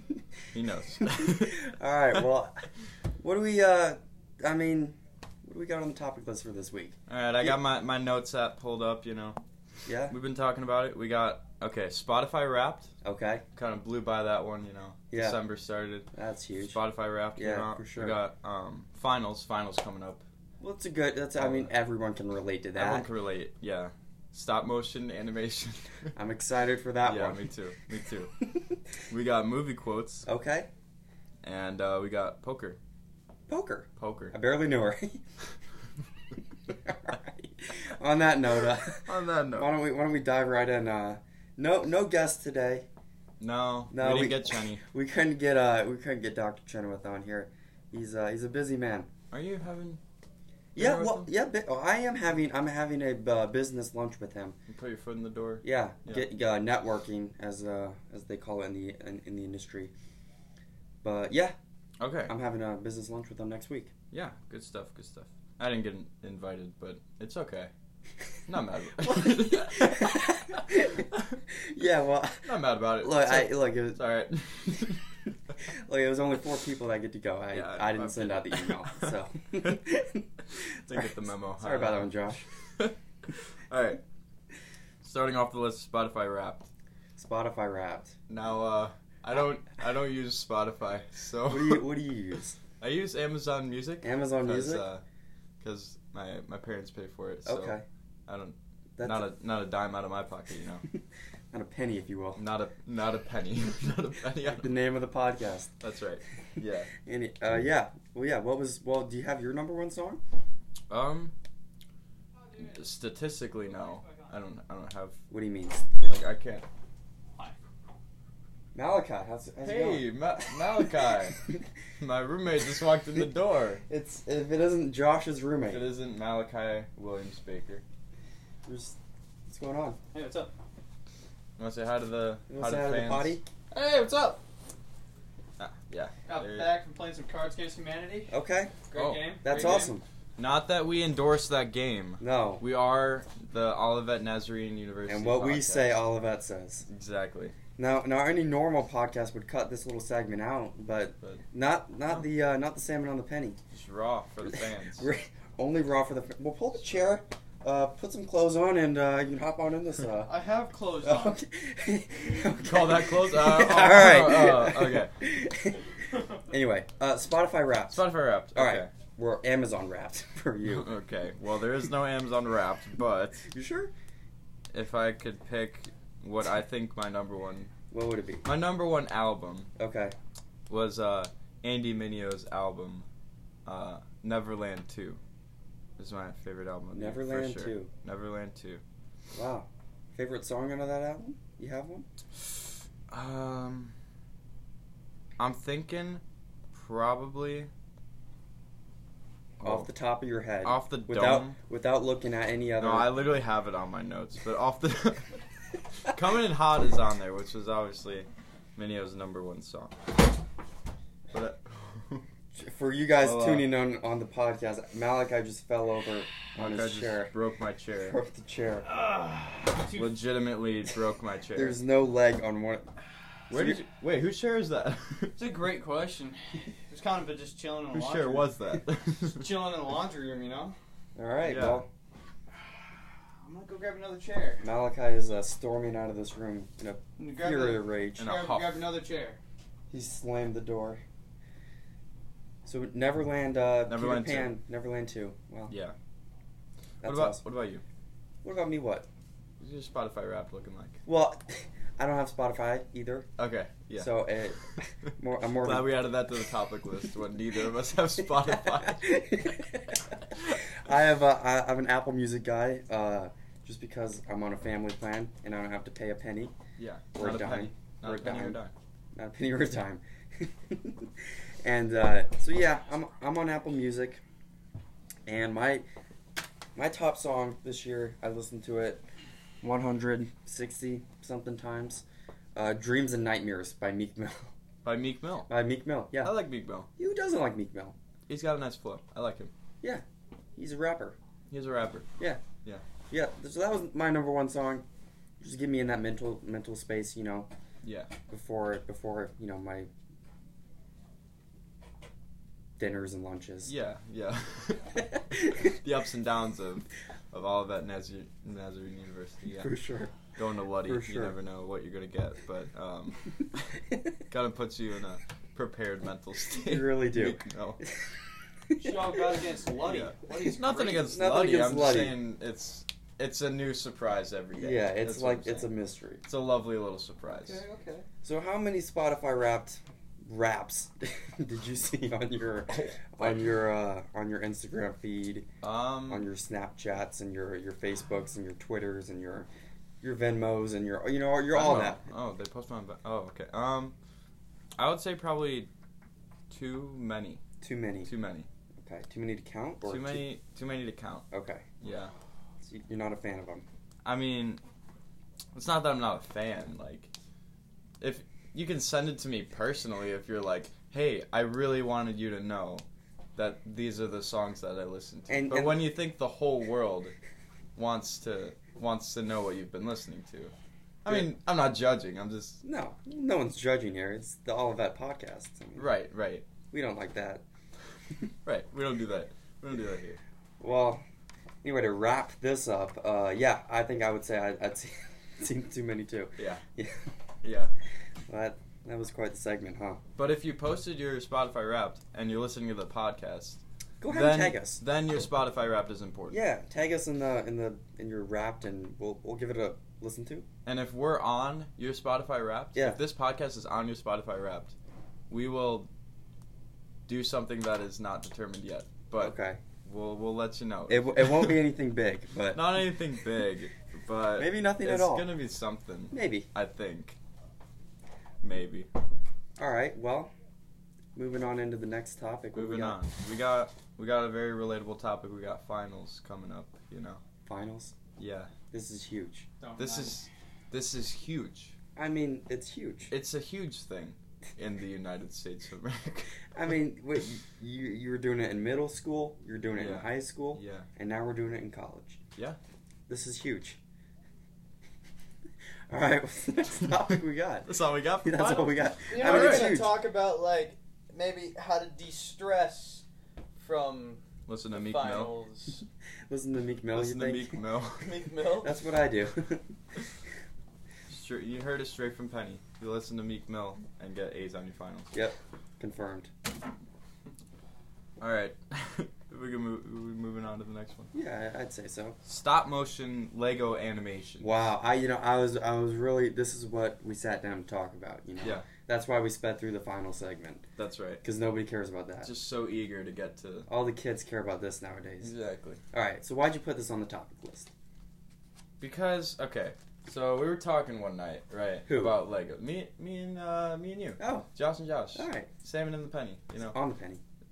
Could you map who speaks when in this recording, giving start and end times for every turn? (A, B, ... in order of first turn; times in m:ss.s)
0:00.5-0:01.7 A
0:01.1-0:02.6 B
0:03.2-0:07.6 B
0:07.1-0:09.4 A
0:09.9-0:10.1 B
0:10.1-0:12.9 A
0:13.0-0:13.4 B
0:13.6-0:20.2 A
0:15.1-0:15.4 B
0:16.1-0:16.8 B
0:17.4-0:18.2 B
0:20.6-0:23.1 B
0:21.4-0:21.8 A
0:22.8-0:26.1 A
0:26.2-0:27.4 B
0:27.0-0:28.3 A
0:29.1-0:30.3 A
0:30.3-0:30.7 B
0:31.4-0:32.8 A
0:33.5-0:35.2 B
0:34.0-0:34.4 A
0:36.7-0:42.9 B
0:39.0-0:39.7 A
0:43.4-0:44.8 A
0:43.9-0:49.1 B
0:49.3-0:50.0 A
0:50.8-0:51.3 A
0:50.8-0:54.6 B
0:54.7-0:56.3 A
0:55.6-0:59.9 B
1:01.0-1:01.6 B
1:02.0-1:02.3 A
1:02.3-1:03.9 B
1:04.1-1:07.7 A
1:08.5-1:11.4 A
1:09.0-1:14.0 B
1:12.4-1:15.0 A
1:15.6-1:20.3 B
1:17.5-1:19.8 A
1:20.5-1:22.1 A
1:21.6-1:22.5 B
1:23.7-1:24.0 A
1:25.0-1:26.7 A
1:27.2-1:28.2 B
1:28.3-1:31.9 A
1:31.5-1:32.6 B
1:32.8-1:35.0 A
1:34.0-1:34.8 B
1:35.6-1:40.8 A
1:37.4-1:37.8 B
1:39.0-1:39.3 B
1:41.5-1:42.4 B
1:42.4-1:44.8 A
1:44.4-1:45.7 B
1:45.8-1:46.9 A
1:47.0-1:50.2 B
1:50.9-1:51.3 A
1:52.6-1:55.2 A
1:55.3-1:56.0 B
1:56.1-1:56.7 A
1:58.8-2:01.5 B
1:59.6-2:01.4 A
2:02.0-2:03.8 A
2:03.8-2:05.9 B
2:05.7-2:07.8 A
2:08.7-2:09.0 B
2:09.5-2:10.0 B
2:10.1-2:10.5 C
2:11.6-2:13.4 A
2:12.5-2:13.4 B
2:13.7-2:14.4 C
2:15.6-2:16.8 A
2:16.3-2:18.3 C
2:18.3-2:18.7 B
2:18.9-2:20.0 C
2:19.0-2:19.3 A
2:19.4-2:20.0 B
2:20.4-2:26.0 A
2:22.2-2:22.6 B
2:25.1-2:26.8 B
2:26.9-2:27.6 A
2:27.8-2:33.6 B
2:33.7-2:35.1 A
2:34.4-2:40.3 B
2:40.2-2:41.4 C
2:41.0-2:45.9 B
2:42.6-2:45.2 A
2:46.5-2:50.9 B
2:47.9-2:48.9 A
2:50.6-2:53.5 A
2:53.5-2:53.9 B
2:54.7-2:57.7 A
2:57.9-2:58.5 B
2:58.4-2:59.7 A
2:59.8-3:00.2 B
3:00.7-3:03.1 A
3:03.7-3:05.2 A
3:06.0-3:08.8 A
3:06.9-3:07.9 B
3:09.3-3:12.0 B
3:13.1-3:14.0 A
3:15.4-3:17.7 A
3:19.6-3:19.9 A
3:19.6-3:23.1 B
3:20.6-3:21.6 A
3:22.8-3:25.4 A
3:26.0-3:30.0 A
3:31.3-3:32.2 A
3:32.5-3:37.3 B
3:33.2-3:33.7 A
3:36.6-3:38.2 A
3:38.0-3:38.9 B
3:39.1-3:40.2 C
3:39.7-3:41.8 A
3:41.5-3:42.9 B
3:43.5-3:45.4 A
3:43.5-3:43.8 B
3:45.4-3:48.5 C
3:47.9-3:49.5 A
3:49.4-3:50.8 C
3:51.2-3:51.9 B
3:51.4-3:51.8 A
3:52.6-3:54.6 C
3:54.6-3:58.3 B
3:57.2-3:59.4 C
3:58.2-3:58.8 A
3:59.9-4:01.0 B
4:02.7-4:05.7 B
4:03.9-4:04.6 A
4:05.7-4:06.0 A
4:07.0-4:07.4 B
4:07.0-4:07.8 A
4:08.4-4:09.1 B
4:09.6-4:11.0 A
4:11.1-4:13.3 B
4:13.4-4:14.3 A
4:14.0-4:16.0 B
4:15.6-4:19.1 A
4:18.5-4:20.1 B
4:20.8-4:26.5 B
4:26.8-4:28.7 A
4:27.2-4:28.6 B
4:29.2-4:34.2 B
4:35.3-4:35.8 B
4:36.8-4:39.0 B
4:39.6-4:42.0 B
4:42.6-4:44.5 B
4:44.8-4:45.5 A
4:45.5-4:46.4 B
4:46.2-4:46.9 A
4:47.0-4:48.0 B
4:48.3-4:49.5 A
4:50.6-4:51.2 B
4:51.5-4:52.1 A
4:53.1-4:54.8 B
4:55.4-4:57.5 B
4:57.8-4:58.1 A
4:58.3-4:59.9 B
5:02.8-5:03.7 B
5:03.6-5:09.7 A
5:09.5-5:10.2 B
5:10.3-5:17.8 A
5:10.8-5:11.4 B
5:16.6-5:19.4 B
5:18.8-5:20.7 C
5:19.8-5:25.7 A
5:20.5-5:22.2 B
5:24.6-5:26.2 B
5:26.2-5:27.6 A
5:27.4-5:28.1 C
5:28.2-5:35.5 B
5:32.7-5:33.6 A
5:35.6-5:36.3 A
5:36.1-5:39.5 B
5:40.0-5:42.0 B
5:41.5-5:44.0 A
5:44.8-5:45.7 A
5:46.5-5:47.4 A
5:47.6-5:48.1 B
5:48.0-5:48.5 A
5:48.8-5:50.3 B
5:49.8-5:51.2 A
5:51.3-5:51.6 B
5:51.8-5:52.1 A
5:52.6-5:53.6 B
5:54.0-5:54.6 A
5:55.5-5:57.1 A
5:58.0-6:02.8 A
6:03.4-6:07.1 A
6:05.3-6:05.9 B
6:07.8-6:10.5 A
6:11.0-6:12.6 A
6:12.6-6:15.9 B
6:15.8-6:16.5 A
6:16.7-6:17.4 B
6:18.5-6:20.2 A
6:20.6-6:21.0 B
6:21.6-6:27.1 B
6:26.4-6:26.6 A
6:27.4-6:27.7 A
6:28.3-6:30.0 B
6:30.2-6:36.4 A
6:34.0-6:34.8 B
6:36.3-6:40.5 B
6:40.6-6:44.7 A
6:42.8-6:43.0 B
6:45.3-6:45.9 A
6:47.1-6:51.6 A
6:49.2-6:49.6 B
6:50.9-6:52.9 B
6:52.5-6:57.2 A
6:54.4-6:55.3 B
6:56.1-6:56.5 B
6:58.4-6:58.9 A
6:59.6-7:00.3 B
7:01.2-7:03.0 B
7:02.5-7:07.2 A
7:07.5-7:07.9 B
7:08.2-7:08.5 A
7:08.7-7:09.5 B
7:09.6-7:10.2 C
7:09.8-7:11.8 A
7:12.0-7:13.1 B
7:13.1-7:16.3 A
7:16.5-7:22.2 B
7:19.8-7:20.9 A
7:23.1-7:23.8 B
7:25.9-7:30.0 B
7:27.6-7:29.8 A
7:29.1-7:33.0 C
7:33.6-7:35.8 C
7:34.5-7:35.4 A
7:36.3-7:37.6 B
7:36.9-7:38.1 A
7:38.0-7:38.7 C
7:38.5-7:39.7 B
7:41.1-7:45.1 A
7:45.1-7:46.3 B
7:48.2-7:51.1 A
7:51.1-7:52.2 B
7:52.2-7:54.5 A
7:54.4-8:00.6 B
8:00.8-8:01.2 A
8:01.2-8:02.3 B
8:02.2-8:03.7 A
8:03.7-8:05.3 B
8:05.2-8:05.8 A
8:05.9-8:07.7 B
8:08.8-8:16.8 A
8:11.9-8:12.2 B
8:14.2-8:14.5 B
8:15.2-8:15.5 B
8:16.7-8:17.2 B